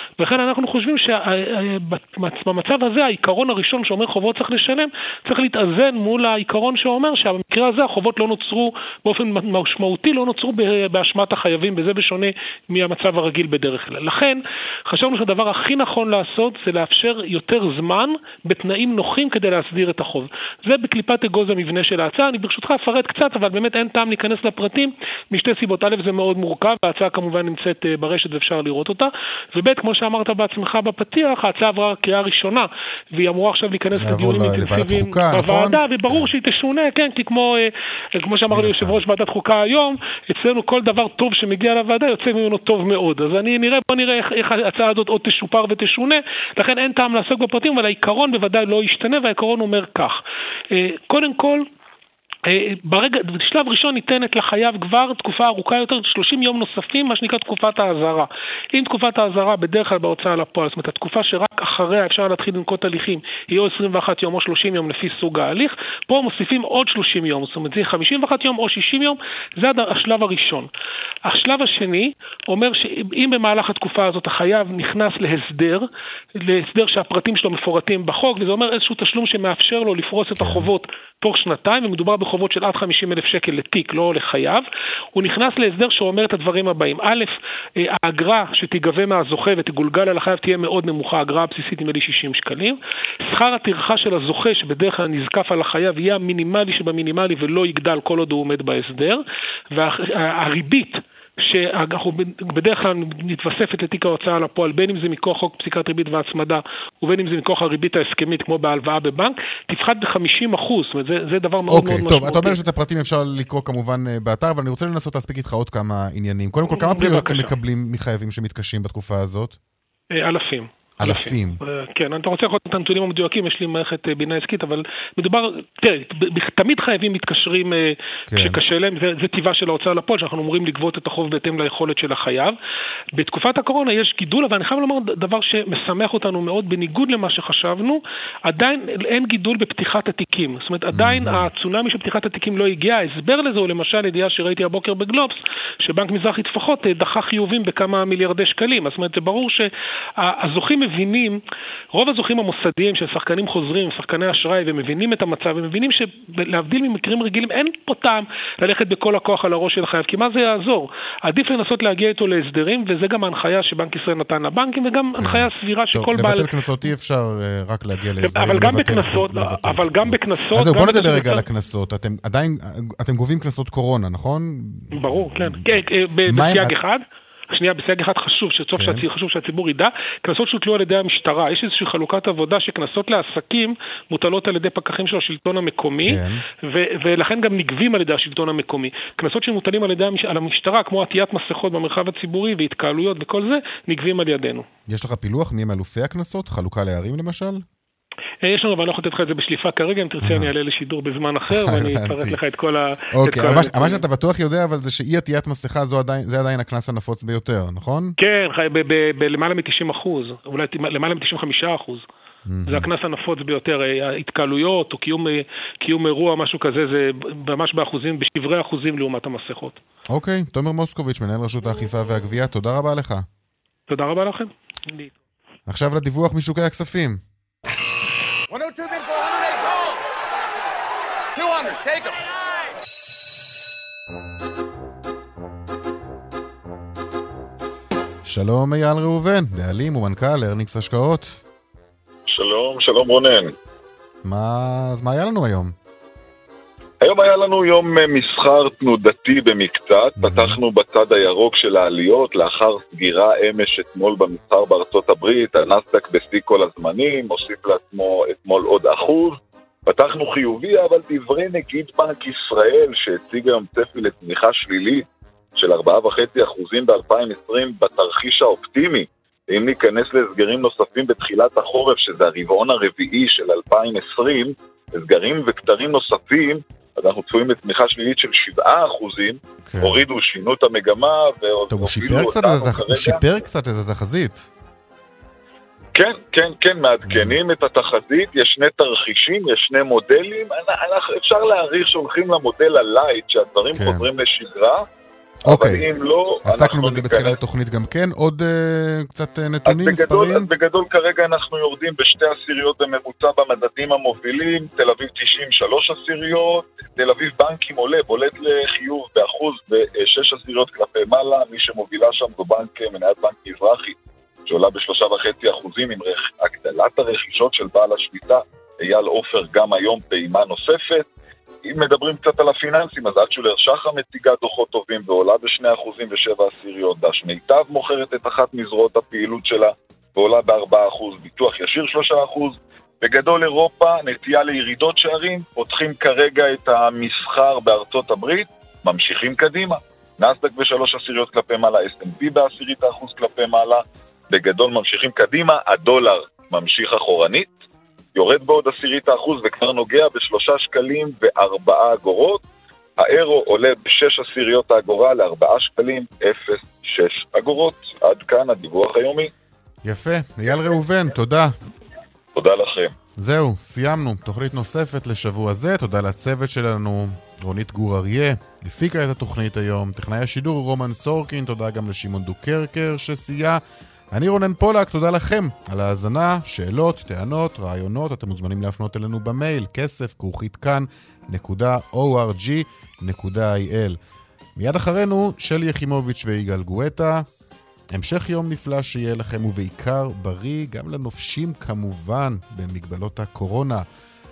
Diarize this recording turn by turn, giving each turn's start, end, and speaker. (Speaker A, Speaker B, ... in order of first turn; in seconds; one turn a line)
Speaker A: 0.2-50.2
Speaker B: 33.9-36.3
Speaker B: 38.5-39.0
Speaker A: 50.7-51.6
Speaker A: 52.5-70.7
Speaker A: 71.2-92.8
Speaker B: 80.3-80.7
Speaker A: 93.3-112.6
Speaker B: 111.7-119.6
Speaker A: 116.7-117.5
Speaker A: 120.1-132.6
Speaker B: 121.0-121.6
Speaker B: 128.3-128.6
Speaker A: 133.2-149.7
Speaker B: 140.9-141.5
Speaker A: 150.2-151.4
Speaker A: 151.9-166.6
Speaker B: 165.2-176.8
Speaker A: 168.2-171.5
Speaker A: 174.9-194.7
Speaker B: 178.7-179.1
Speaker B: 186.0-186.4
Speaker B: 194.9-197.6
Speaker A: 198.4-204.0
Speaker B: 200.2-200.5
Speaker B: 201.5-202.4
Speaker B: 203.1-208.2
Speaker A: 208.2-212.0
Speaker B: 212.5-212.9
Speaker A: 212.7-219.8
Speaker B: 220.1-223.3
Speaker A: 223.9-225.2
Speaker B: 225.7-227.2
Speaker C: 228.5-229.9
Speaker C: 231.4-232.2
Speaker B: 238.3-241.4
Speaker D: 242.3-243.5
Speaker B: 244.2-245.7
Speaker D: 247.0-265.1
Speaker B: 250.2-250.6
Speaker D: 265.6-283.4
Speaker B: 279.7-280.0
Speaker B: 281.7-284.5
Speaker D: 285.9-294.9
Speaker B: 287.0-287.4
Speaker B: 293.7-294.1
Speaker B: 295.4-295.9
Speaker D: 295.5-297.4
Speaker B: 296.4-300.5
Speaker D: 299.7-314.0
Speaker D: 314.5-321.1
Speaker D: 321.6-347.5
Speaker D: 348.1-352.4
Speaker D: 353.0-359.3
Speaker B: 359.8-361.5
Speaker D: 362.4-362.9
Speaker B: 363.2-373.6
Speaker B: 374.1-384.0
Speaker B: 384.6-387.3
Speaker B: 387.9-393.9